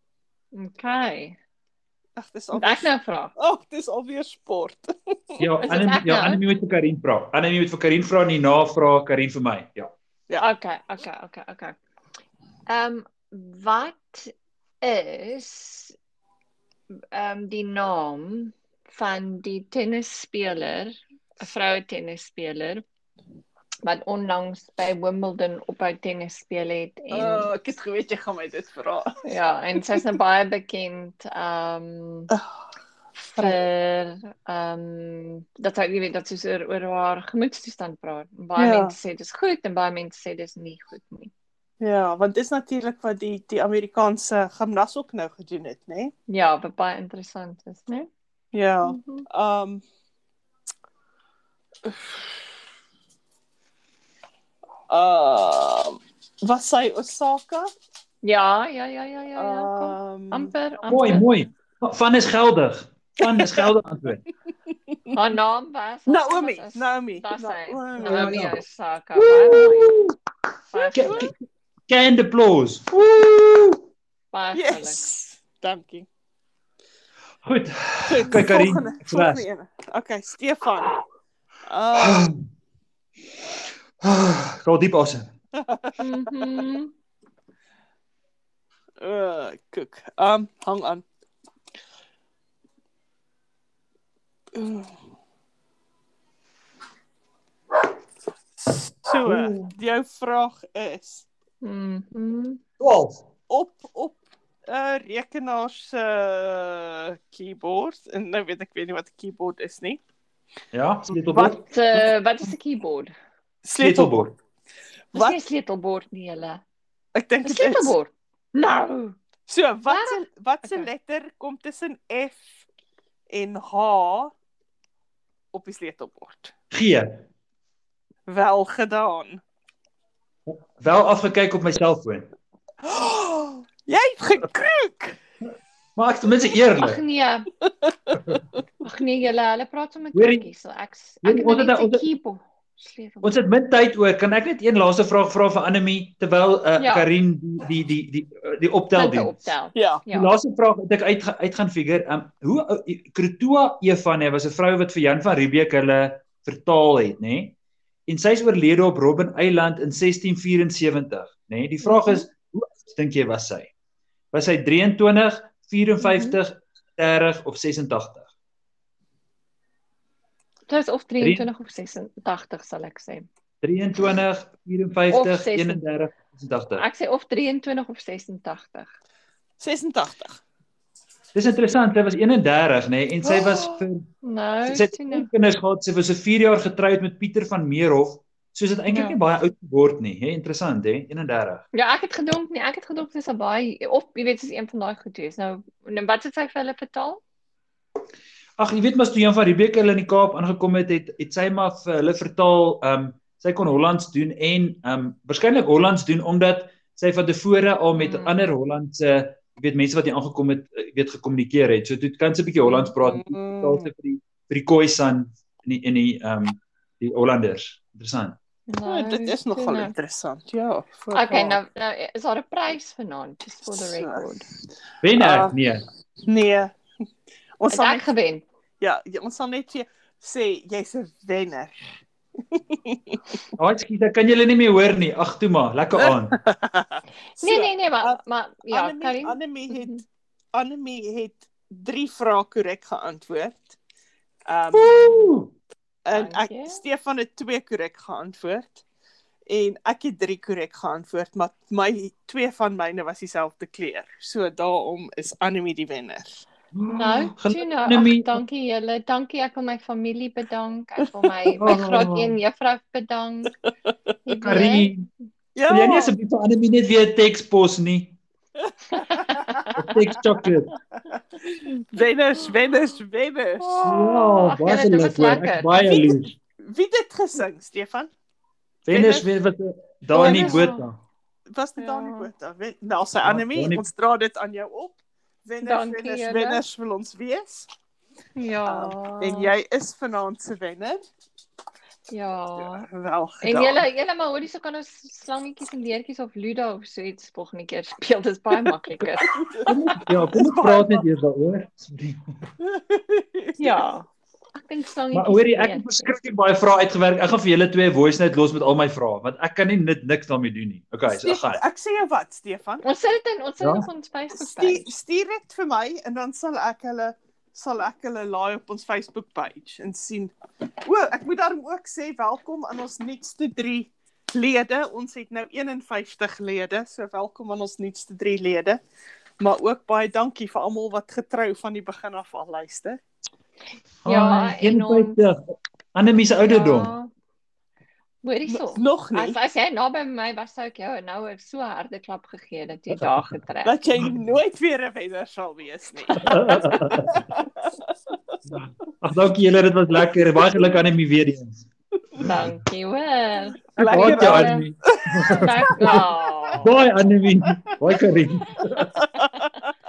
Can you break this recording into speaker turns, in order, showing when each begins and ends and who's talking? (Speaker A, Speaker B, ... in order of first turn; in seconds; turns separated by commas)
Speaker A: 0.5-1.4, Speaker B: 2.2-5.5, Speaker A: 2.5-3.3, Speaker C: 5.4-9.9, Speaker A: 5.6-6.4, Speaker A: 10.4-11.8, Speaker A: 12.7-15.9, Speaker A: 17.1-22.8, Speaker A: 23.8-27.5, Speaker B: 27.1-29.2, Speaker A: 29.2-32.3, Speaker A: 33.3-41.3, Speaker B: 38.5-38.9, Speaker B: 41.8-46.1, Speaker A: 46.3-48.1, Speaker B: 48.5-49.8, Speaker A: 48.8-49.2, Speaker B: 51.9-52.1, Speaker B: 54.9-57.7, Speaker A: 58.2-61.2, Speaker B: 59.4-60.5, Speaker C: 60.9-64.2, Speaker B: 63.2-63.7, Speaker B: 64.9-65.2, Speaker A: 65.1-70.0, Speaker B: 66.1-68.5, Speaker C: 68.0-68.6, Speaker C: 69.2-70.1, Speaker A: 70.7-71.3, Speaker C: 70.9-71.3, Speaker C: 71.9-73.8, Speaker A: 74.3-75.0, Speaker B: 74.5-76.1, Speaker C: 77.4-79.4, Speaker B: 78.0-81.0, Speaker B: 81.7-82.3, Speaker C: 81.9-82.4, Speaker C: 84.0-85.3, Speaker B: 85.5-86.0, Speaker A: 86.0-86.9, Speaker B: 89.0-91.0, Speaker B: 94.5-94.9, Speaker B: 98.6-101.2, Speaker C: 99.2-99.7, Speaker A: 101.6-102.6, Speaker C: 102.8-103.2, Speaker B: 103.5-110.0, Speaker C: 110.7-111.6, Speaker B: 111.2-111.6, Speaker A: 111.7-113.1, Speaker B: 113.6-114.3, Speaker C: 113.8-114.3, Speaker B: 115.1-115.4, Speaker A: 115.1-116.6, Speaker B: 117.1-117.9, Speaker A: 117.4-119.2, Speaker B: 119.5-122.6, Speaker A: 119.9-120.9, Speaker B: 123.3-124.3, Speaker B: 125.5-126.5, Speaker C: 126.7-127.2, Speaker B: 128.3-129.4, Speaker C: 130.5-132.3, Speaker B: 132.8-135.2, Speaker C: 135.9-137.0, Speaker A: 136.7-137.5, Speaker B: 137.8-138.2, Speaker A: 138.8-143.4, Speaker C: 140.1-140.5, Speaker C: 141.2-142.0, Speaker C: 143.2-149.4, Speaker A: 146.8-147.1, Speaker A: 148.9-150.3, Speaker B: 149.7-150.0, Speaker C: 150.1-157.5, Speaker C: 158.1-163.7, Speaker A: 161.8-162.3, Speaker C: 164.3-168.3, Speaker A: 166.0-166.4, Speaker A: 170.7-173.3, Speaker C: 171.2-171.5, Speaker C: 173.6-176.8, Speaker A: 175.1-175.8, Speaker A: 176.8-178.9, Speaker B: 179.6-180.4, Speaker C: 181.3-184.1, Speaker B: 183.3-183.8, Speaker A: 184.2-185.3, Speaker C: 184.7-191.6, Speaker A: 188.9-189.2, Speaker A: 191.7-197.2, Speaker C: 198.6-218.4, Speaker A: 207.9-208.4, Speaker B: 213.0-213.9, Speaker A: 218.7-219.9, Speaker B: 218.8-221.6, Speaker A: 221.1-224.4, Speaker B: 223.7-224.3, Speaker C: 225.0-225.8, Speaker B: 225.2-225.5, Speaker B: 226.2-226.7, Speaker B: 227.6-228.1, Speaker A: 227.7-228.4, Speaker B: 228.8-231.8, Speaker B: 232.5-233.2, Speaker C: 233.6-236.4, Speaker B: 235.9-238.2, Speaker A: 237.4-240.0, Speaker B: 238.7-240.0, Speaker B: 240.5-243.8, Speaker B: 244.4-244.9, Speaker C: 244.7-245.5, Speaker A: 244.8-245.2, Speaker B: 246.0-248.8, Speaker A: 246.1-246.8, Speaker B: 249.5-256.4, Speaker C: 256.7-258.4, Speaker A: 256.9-263.5, Speaker C: 261.6-262.3, Speaker A: 264.2-264.9, Speaker C: 264.4-265.1, Speaker B: 265.5-266.1, Speaker C: 265.7-268.2, Speaker B: 268.6-269.8, Speaker A: 268.9-269.9, Speaker C: 269.7-270.7, Speaker B: 271.5-273.8, Speaker A: 273.6-276.0, Speaker C: 273.8-276.4, Speaker B: 276.6-278.1, Speaker C: 278.9-281.0, Speaker B: 278.9-279.2, Speaker B: 280.1-280.7, Speaker A: 280.1-280.9, Speaker B: 281.5-287.7, Speaker A: 281.8-282.3, Speaker C: 283.2-283.8, Speaker A: 285.6-286.6, Speaker A: 288.4-289.5, Speaker B: 288.6-291.0, Speaker A: 292.1-292.9, Speaker B: 292.6-293.8, Speaker A: 293.4-299.4, Speaker B: 299.0-301.0, Speaker C: 299.7-302.2, Speaker B: 302.6-303.8, Speaker A: 303.6-305.9, Speaker C: 305.1-311.6, Speaker B: 311.1-312.8, Speaker A: 312.8-314.9, Speaker C: 313.6-313.8, Speaker B: 314.4-328.8, Speaker B: 329.4-333.0, Speaker C: 334.0-335.4, Speaker A: 334.1-335.2, Speaker C: 335.9-336.9, Speaker A: 336.5-337.1, Speaker A: 338.2-343.7, Speaker B: 338.5-339.4, Speaker B: 343.6-348.1, Speaker C: 346.2-347.2, Speaker C: 348.5-351.7, Speaker C: 352.2-352.6, Speaker A: 352.2-354.6, Speaker B: 353.8-356.1, Speaker C: 353.8-356.1, Speaker A: 355.4-356.8, Speaker C: 356.6-358.9, Speaker B: 358.9-359.5, Speaker A: 359.1-359.6